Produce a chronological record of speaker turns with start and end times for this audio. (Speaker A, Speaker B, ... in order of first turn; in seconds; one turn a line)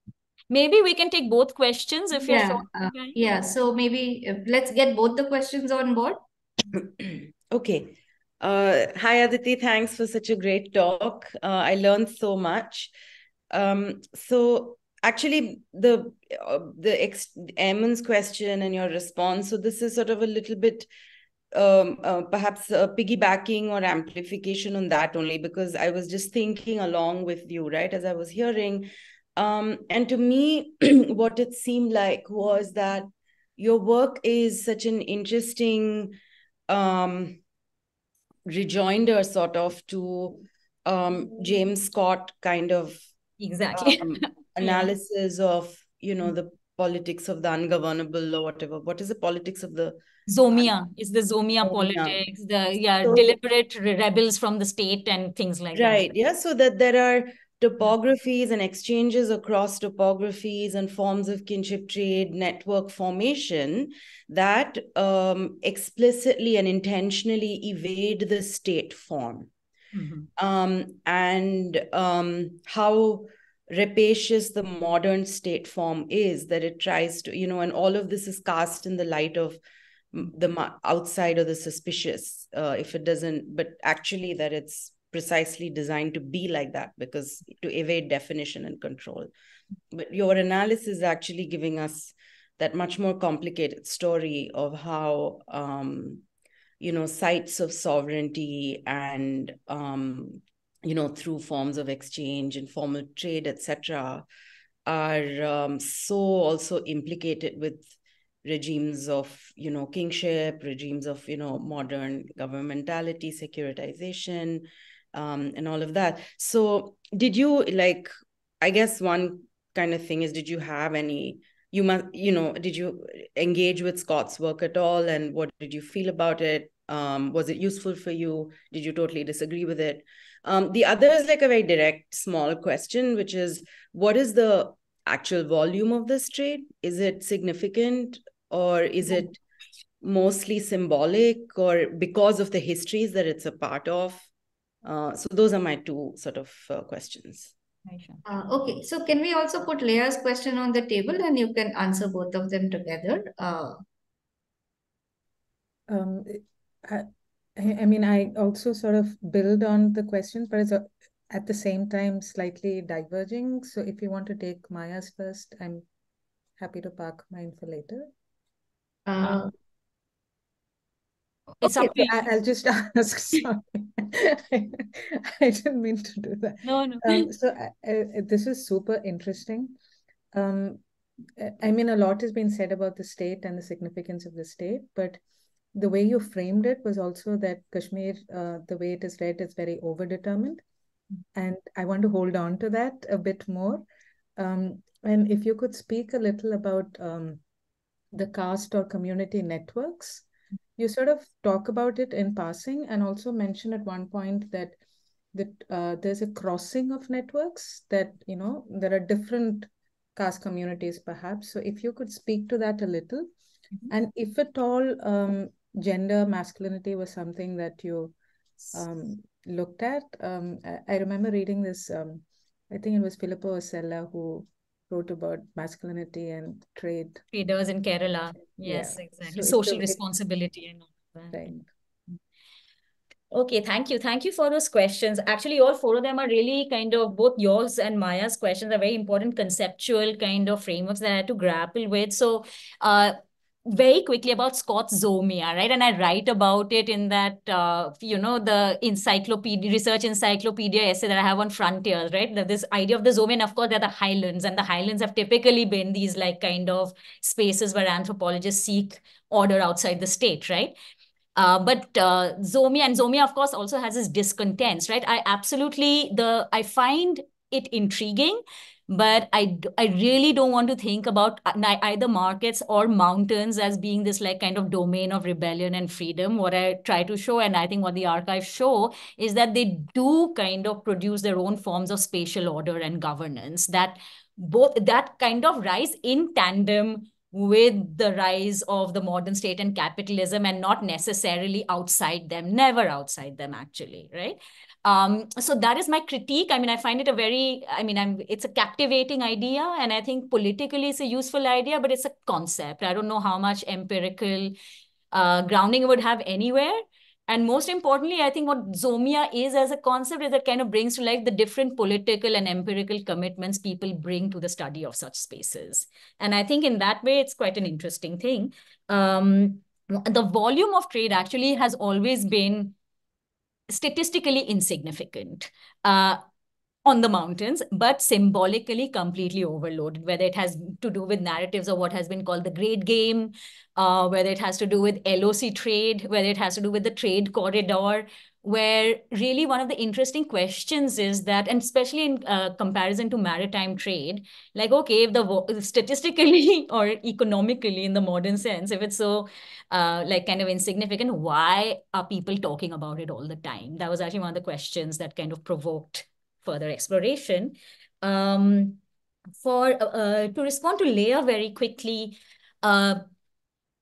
Speaker A: 0.5-3.2
Speaker B: 2.2-6.2
Speaker C: 6.7-12.9
Speaker C: 13.5-20.9
Speaker C: 21.5-36.2
Speaker C: 36.7-37.4
Speaker C: 38.5-43.1
Speaker A: 43.4-45.0
Speaker C: 43.7-50.8
Speaker A: 50.3-56.1
Speaker C: 51.6-52.2
Speaker C: 53.0-53.4
Speaker C: 55.8-69.5
Speaker A: 70.0-70.3
Speaker C: 70.4-79.6
Speaker C: 80.1-89.3
Speaker C: 89.9-96.2
Speaker C: 96.8-104.3
Speaker C: 104.9-107.9
Speaker C: 108.4-139.4
Speaker C: 140.0-144.3
Speaker C: 144.8-147.5
Speaker A: 147.9-148.2
Speaker B: 148.3-153.8
Speaker D: 155.9-165.9
Speaker D: 166.6-168.1
Speaker B: 169.1-169.5
Speaker A: 171.6-172.2
Speaker D: 171.7-179.8
Speaker A: 176.6-177.3
Speaker D: 180.3-180.8
Speaker D: 181.4-185.2
Speaker D: 185.7-190.6
Speaker D: 191.3-193.9
Speaker D: 194.4-197.4
Speaker D: 198.1-200.2
Speaker D: 200.8-204.8
Speaker D: 205.3-213.3
Speaker D: 213.9-218.1
Speaker D: 218.7-227.2
Speaker A: 227.3-231.6
Speaker D: 228.5-230.0
Speaker D: 231.3-231.7
Speaker A: 233.3-260.7
Speaker A: 261.4-304.5
Speaker A: 305.1-322.7
Speaker A: 323.7-326.2
Speaker A: 326.9-358.8
Speaker A: 359.4-363.0